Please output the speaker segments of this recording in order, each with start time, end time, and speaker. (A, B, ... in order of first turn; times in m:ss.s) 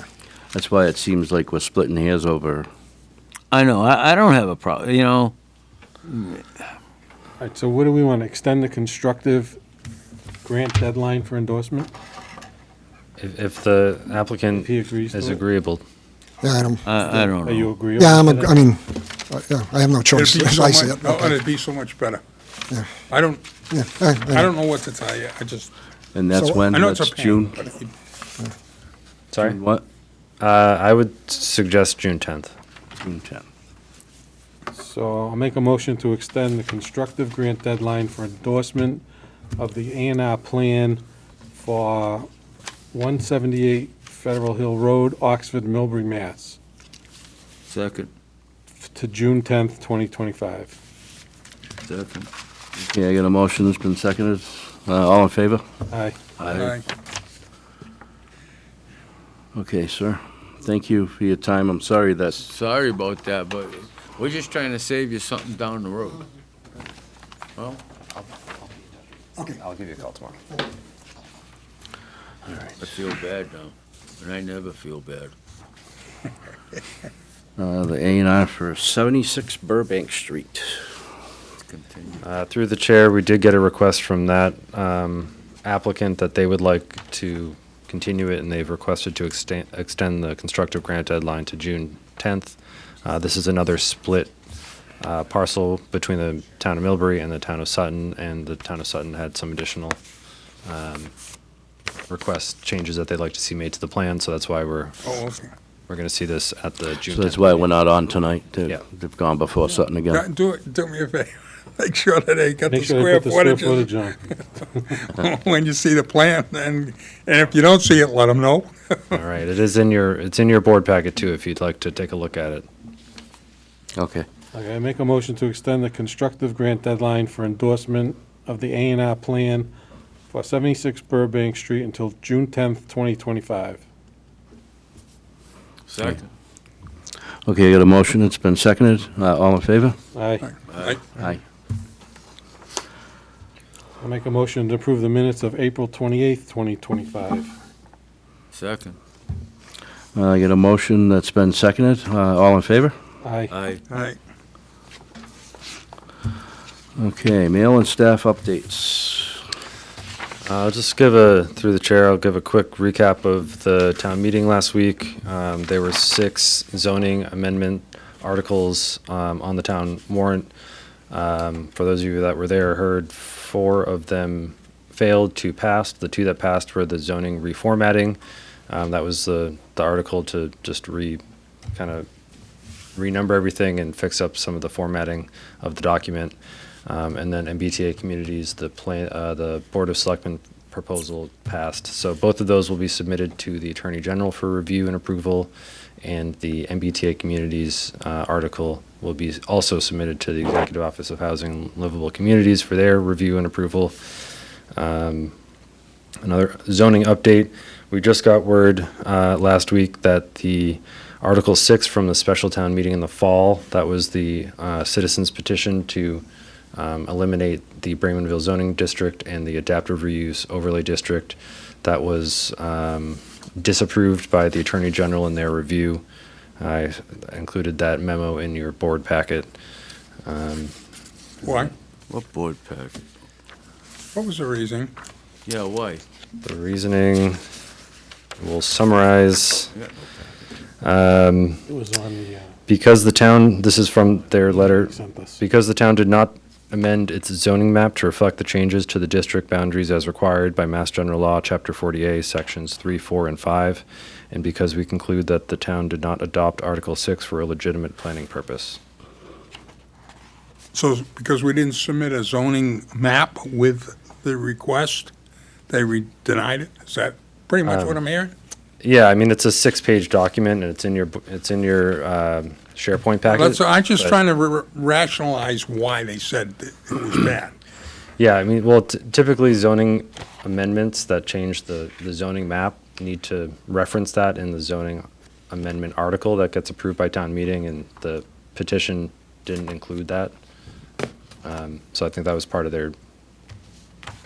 0:00.5-0:02.7 A
0:03.5-0:05.4 B
0:06.0-0:06.4 B
0:07.4-0:09.6 C
0:10.4-0:11.9 C
0:13.2-0:15.8 D
0:14.5-0:15.4 C
0:16.4-0:16.8 E
0:16.9-0:17.7 B
0:17.4-0:18.6 C
0:18.0-0:21.3 E
0:20.1-0:22.2 F
0:23.1-0:23.4 F
0:23.7-0:24.5 E
0:24.3-0:25.7 F
0:26.2-0:27.6 A
0:26.3-0:26.7 E
0:26.7-0:27.9 F
0:29.3-0:29.6 D
0:29.4-0:29.8 A
0:30.4-0:32.5 D
0:33.0-0:33.4 A
0:34.7-0:39.0 C
0:39.6-0:42.3 C
0:42.9-0:46.6 C
0:47.7-0:48.1 B
0:48.9-0:50.8 C
0:51.8-0:52.3 B
0:52.8-0:55.6 A
0:55.9-0:56.3 C
0:56.4-0:56.7 A
0:56.6-0:56.8 F
0:59.6-1:02.4 A
1:02.4-1:06.2 B
1:09.4-1:10.4 D
1:12.8-1:15.3 B
1:17.6-1:20.8 A
1:21.7-1:22.2 B
1:22.2-1:34.3 D
1:35.0-1:40.0 D
1:40.7-1:41.1 D
1:42.1-1:45.0 D
1:45.0-1:45.5 F
1:45.9-1:47.7 D
1:47.1-1:50.2 A
1:50.1-1:54.4 F
1:52.7-1:55.0 C
1:54.9-1:59.2 F
1:59.1-2:02.7 D
2:04.0-2:04.3 A
2:04.5-2:09.7 C
2:10.3-2:13.8 C
2:15.9-2:16.3 B
2:17.5-2:20.0 A
2:20.1-2:20.5 C
2:20.7-2:21.0 B
2:24.0-2:27.5 C
2:28.5-2:29.0 B
2:30.2-2:33.0 A
2:33.2-2:33.5 C
2:33.5-2:33.8 B
2:33.9-2:34.2 F
2:37.0-2:39.4 A
2:40.4-2:50.5 D
2:51.1-2:58.2 D
2:58.7-3:01.2 D
3:01.8-3:02.1 D
3:03.0-3:06.4 D
3:06.9-3:15.5 D
3:16.0-3:24.0 D
3:24.8-3:25.3 D
3:26.2-3:36.2 D
3:36.8-3:46.0 D
3:46.6-3:49.5 D
3:50.3-3:50.7 D
3:51.4-3:51.7 F
3:52.1-3:53.0 B
3:54.2-3:54.9 F
3:55.4-3:56.0 B
3:56.4-3:57.4 D
3:58.4-3:59.7 D
3:59.7-4:00.3 B
4:00.8-4:01.6 D
4:01.7-4:02.6 C
4:02.7-4:18.8 D
4:04.5-4:05.4 C
4:20.7-4:25.1 F
4:25.7-4:28.3 F
4:27.6-4:28.0 D
4:28.8-4:34.2 D
4:33.3-4:37.5 F
4:38.2-4:50.3 D
4:51.4-4:53.0 D